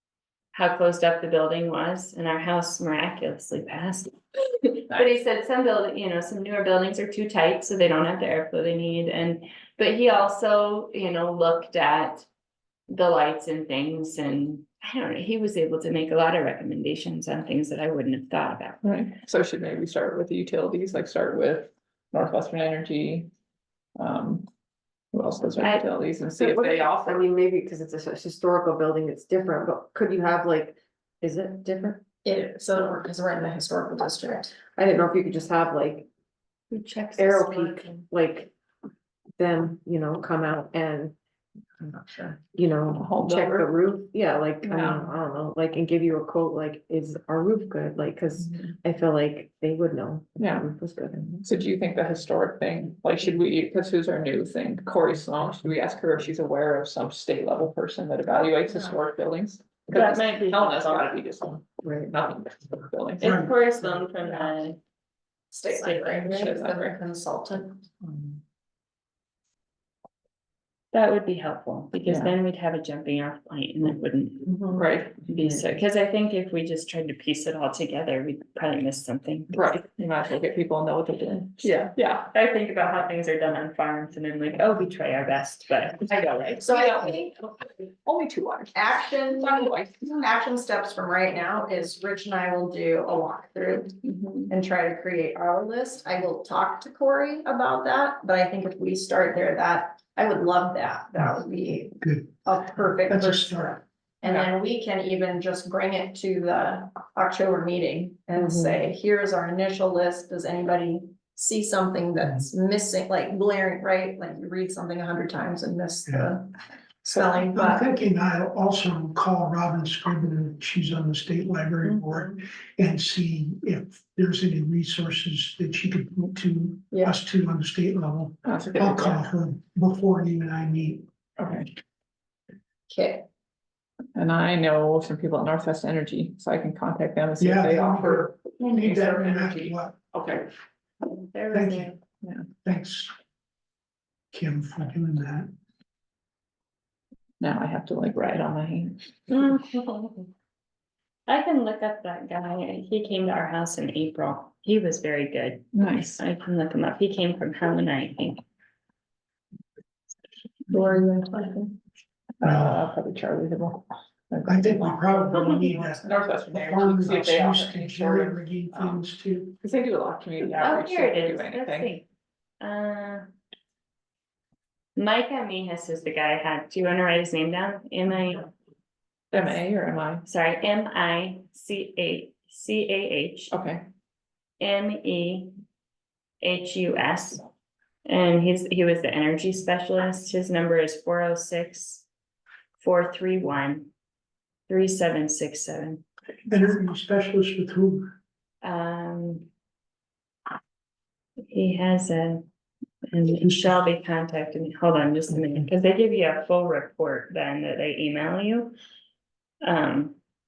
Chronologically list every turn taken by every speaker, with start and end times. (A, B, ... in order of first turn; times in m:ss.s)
0:00.5-0:12.3 A
0:12.9-0:18.8 A
0:18.8-0:23.3 B
0:24.0-0:24.5 B
0:25.1-0:27.2 B
0:25.6-0:25.9 A
0:26.4-0:32.1 C
0:32.2-0:34.6 D
0:34.6-0:36.1 C
0:36.7-0:38.0 A
0:37.2-0:38.5 C
0:39.4-0:41.2 C
0:41.8-0:51.5 C
0:43.0-0:43.7 B
0:44.6-0:45.1 B
0:50.4-0:50.7 B
0:51.4-1:03.4 B
0:59.9-1:01.2 A
1:01.8-1:02.1 C
1:03.2-1:03.5 E
1:03.2-1:04.8 A
1:05.5-1:07.9 D
1:05.7-1:06.4 A
1:06.2-1:07.0 B
1:10.9-1:19.8 A
1:12.1-1:12.3 B
1:14.7-1:15.3 B
1:19.5-1:22.3 B
1:21.6-1:26.8 A
1:26.6-1:27.3 D
1:26.7-1:27.2 B
1:28.0-1:30.0 B
1:28.7-1:56.5 D
1:34.0-1:34.5 A
1:42.0-1:43.8 E
1:48.4-1:48.8 C
1:56.1-1:56.3 E
1:57.0-1:57.9 D
1:57.5-2:11.0 E
2:08.4-2:09.2 B
2:11.4-2:11.7 B
2:12.9-2:13.3 D
2:14.2-2:20.5 B
2:17.4-2:20.0 E
2:21.1-2:22.0 A
2:21.5-2:21.9 E
2:22.2-2:22.5 B
2:22.6-2:23.1 E
2:24.3-2:25.5 E
2:27.4-2:29.1 B
2:29.3-2:30.3 A
2:31.3-2:38.4 A
2:35.7-2:36.2 B
2:40.7-2:41.7 B
2:42.4-2:49.0 B
2:42.4-2:42.8 E
2:44.5-2:49.6 E
2:49.6-2:51.9 B
2:50.6-2:52.1 A
2:52.6-2:53.3 A
2:55.0-2:58.5 A
2:59.3-3:00.2 B
3:00.2-3:03.5 A
3:03.5-3:03.8 B
3:04.6-3:05.5 A
3:06.4-3:07.4 A
3:08.1-3:12.0 A
3:12.8-3:13.9 A
3:14.7-3:16.0 A
3:16.5-3:18.1 E
3:18.6-3:19.5 A
3:21.5-3:22.5 A
3:23.1-3:28.8 A
3:29.6-3:30.2 A